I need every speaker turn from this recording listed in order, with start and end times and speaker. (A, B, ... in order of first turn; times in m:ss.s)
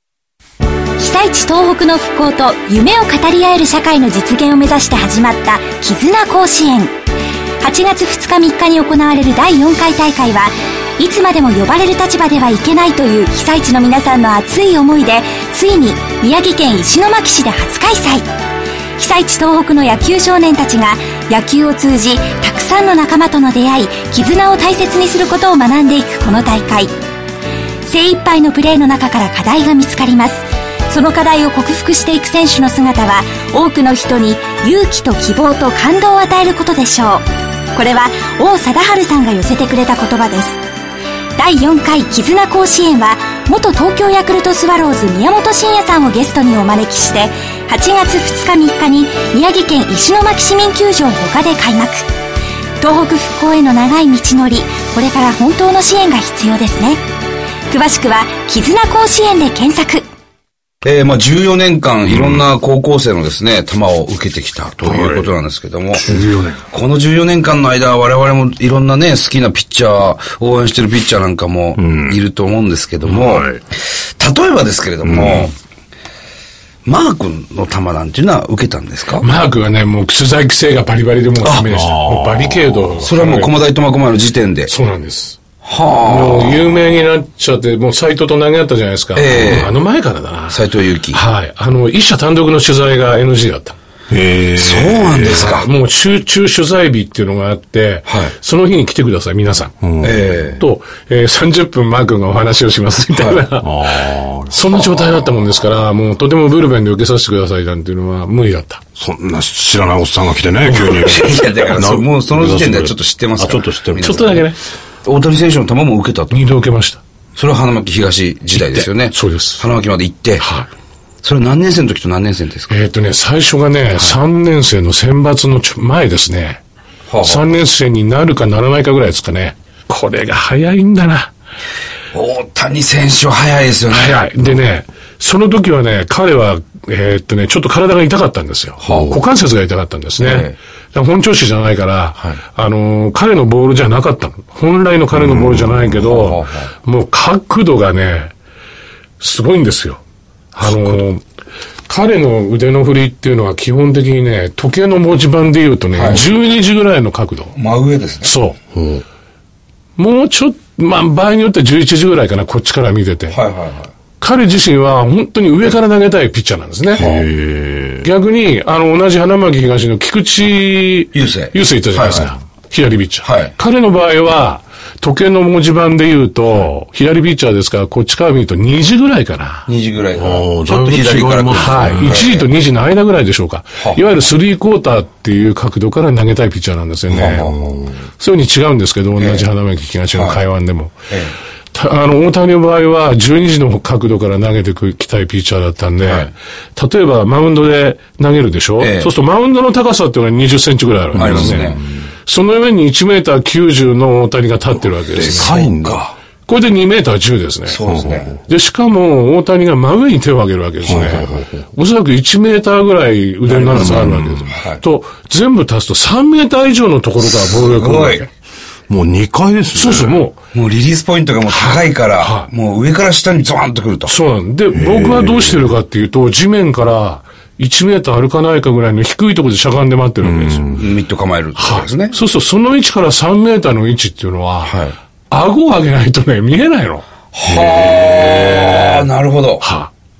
0:01.0-0:06.9 A
0:07.6-0:18.3 A
0:19.0-0:26.9 A
0:27.8-0:40.6 A
0:41.4-0:52.1 A
0:52.8-0:57.0 A
0:57.7-1:00.0 A
1:00.8-1:06.1 B
1:02.1-1:02.4 C
1:04.8-1:05.3 C
1:05.9-1:06.6 C
1:06.7-1:13.5 B
1:11.8-1:12.2 C
1:13.0-1:13.6 C
1:14.2-1:15.5 B
1:15.0-1:15.5 C
1:16.8-1:19.2 B
1:19.2-1:23.6 D
1:21.7-1:23.1 C
1:23.0-1:24.7 B
1:24.7-1:25.4 D
1:25.6-1:26.6 B
1:26.0-1:33.8 D
1:29.2-1:29.7 B
1:30.5-1:31.2 B
1:34.1-1:35.6 C
1:34.6-1:35.7 B
1:35.3-1:39.7 D
1:38.1-1:38.3 B
1:39.8-1:40.4 C
1:40.0-1:40.6 B
1:40.6-1:44.0 D
1:43.1-1:43.4 B
1:43.6-1:44.8 C
1:44.5-1:48.8 D
1:49.0-1:54.4 C
1:50.7-1:54.4 B
1:54.0-1:54.6 D
1:55.0-1:56.5 B
1:56.3-1:57.0 D
1:57.4-2:00.4 B
1:58.5-1:59.6 D
2:00.4-2:00.7 D
2:01.2-2:02.7 B
2:02.7-2:06.6 D
2:07.1-2:07.5 B
2:07.2-2:11.3 D
2:12.1-2:14.2 B
2:13.9-2:28.3 D
2:18.8-2:19.2 B
2:20.2-2:20.5 B
2:25.1-2:26.0 C
2:26.0-2:26.7 B
2:29.2-2:30.0 D
2:30.5-2:31.2 D
2:31.9-2:37.6 D
2:35.9-2:36.2 B
2:37.6-2:38.3 B
2:38.2-2:38.6 D
2:38.7-2:39.0 C
2:40.0-2:43.4 D
2:43.3-2:43.9 B
2:44.2-2:47.1 D
2:47.0-2:47.2 B
2:47.0-2:48.1 C
2:48.0-2:59.7 D
2:51.1-2:52.3 B
2:53.2-2:53.5 B
2:59.7-3:02.5 B
3:00.1-3:02.3 C
3:01.5-3:07.5 D
3:07.1-3:07.6 B
3:07.2-3:08.0 C
3:08.2-3:11.1 D
3:09.2-3:09.4 B
3:10.1-3:10.4 B
3:11.7-3:25.5 D
3:16.0-3:16.3 B
3:18.8-3:19.1 B
3:21.1-3:22.1 C
3:21.2-3:21.8 B
3:25.2-3:26.1 B
3:25.2-3:26.1 C
3:26.5-3:27.8 D
3:27.7-3:28.3 B
3:27.9-3:28.4 C
3:28.4-3:38.3 D
3:30.8-3:31.6 C
3:33.5-3:34.8 B
3:33.7-3:34.5 C
3:37.2-3:38.2 B
3:38.9-3:40.2 C
3:39.7-3:40.4 D
3:40.5-3:44.1 B
3:41.5-3:42.5 D
3:44.1-3:50.7 D
3:44.7-3:45.7 C
3:50.2-3:50.9 C
3:50.8-3:52.1 B
3:51.6-3:54.8 D
3:54.6-3:54.9 B
3:55.3-3:57.0 D
3:57.3-3:59.6 B
3:57.4-3:59.1 C
3:59.6-3:59.9 D